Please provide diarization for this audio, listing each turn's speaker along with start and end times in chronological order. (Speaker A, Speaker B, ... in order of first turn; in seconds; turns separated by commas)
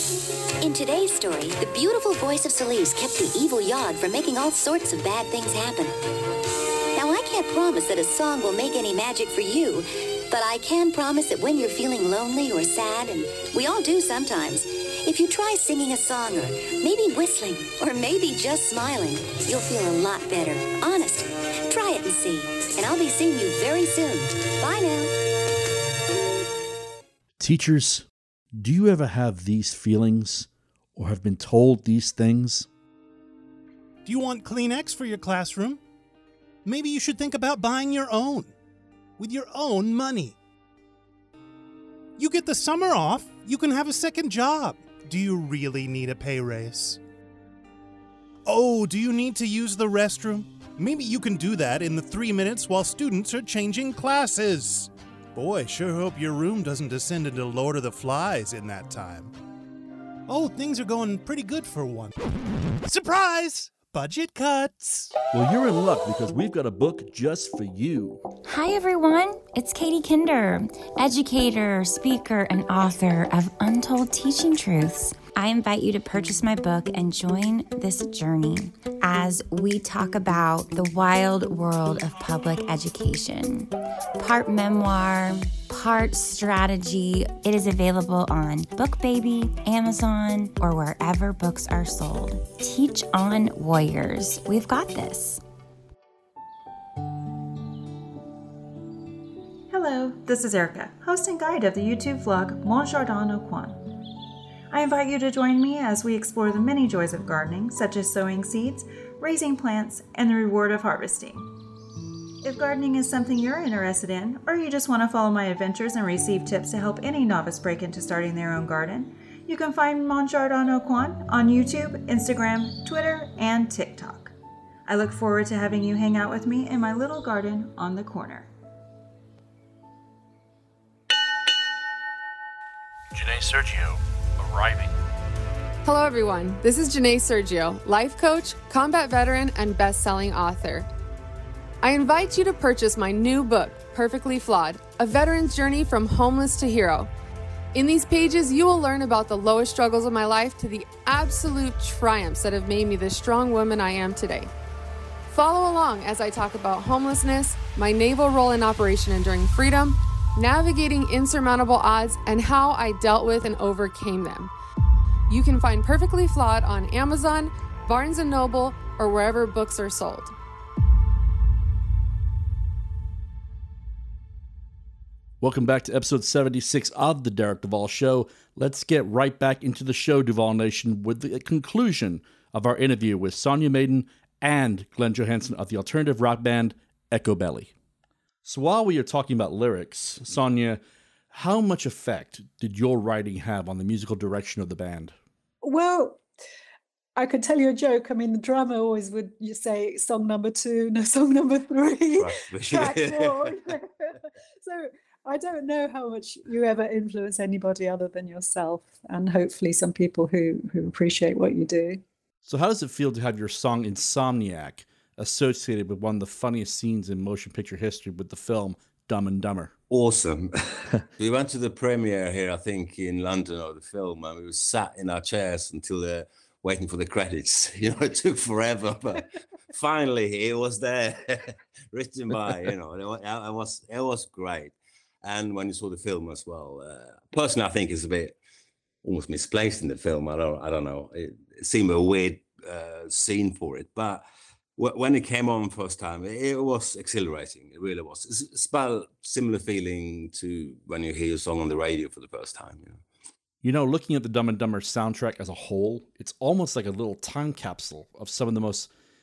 Speaker A: 0.6-6.0, Speaker A: 7.0-25.1, Speaker B: 27.4-32.7, Speaker C: 34.0-35.8, Speaker C: 36.6-38.5, Speaker C: 39.2-40.4, Speaker C: 42.2-47.0, Speaker C: 48.5-59.3, Speaker C: 60.3-62.1, Speaker C: 62.8-65.1, Speaker B: 65.3-68.2, Speaker D: 68.5-95.4, Speaker E: 99.7-103.9, Speaker E: 104.7-111.5, Speaker E: 112.4-128.5, Speaker B: 133.1-135.0, Speaker F: 135.8-140.9, Speaker F: 141.8-147.1, Speaker F: 147.7-154.5, Speaker F: 155.3-164.5, Speaker F: 165.3-170.3, Speaker B: 175.4-187.7, Speaker B: 188.4-195.2, Speaker G: 195.6-196.2, Speaker G: 197.2-212.0, Speaker H: 202.2-203.6, Speaker B: 212.4-219.7, Speaker H: 219.9-238.4, Speaker H: 239.0-244.2, Speaker H: 244.8-253.0, Speaker B: 253.6-258.9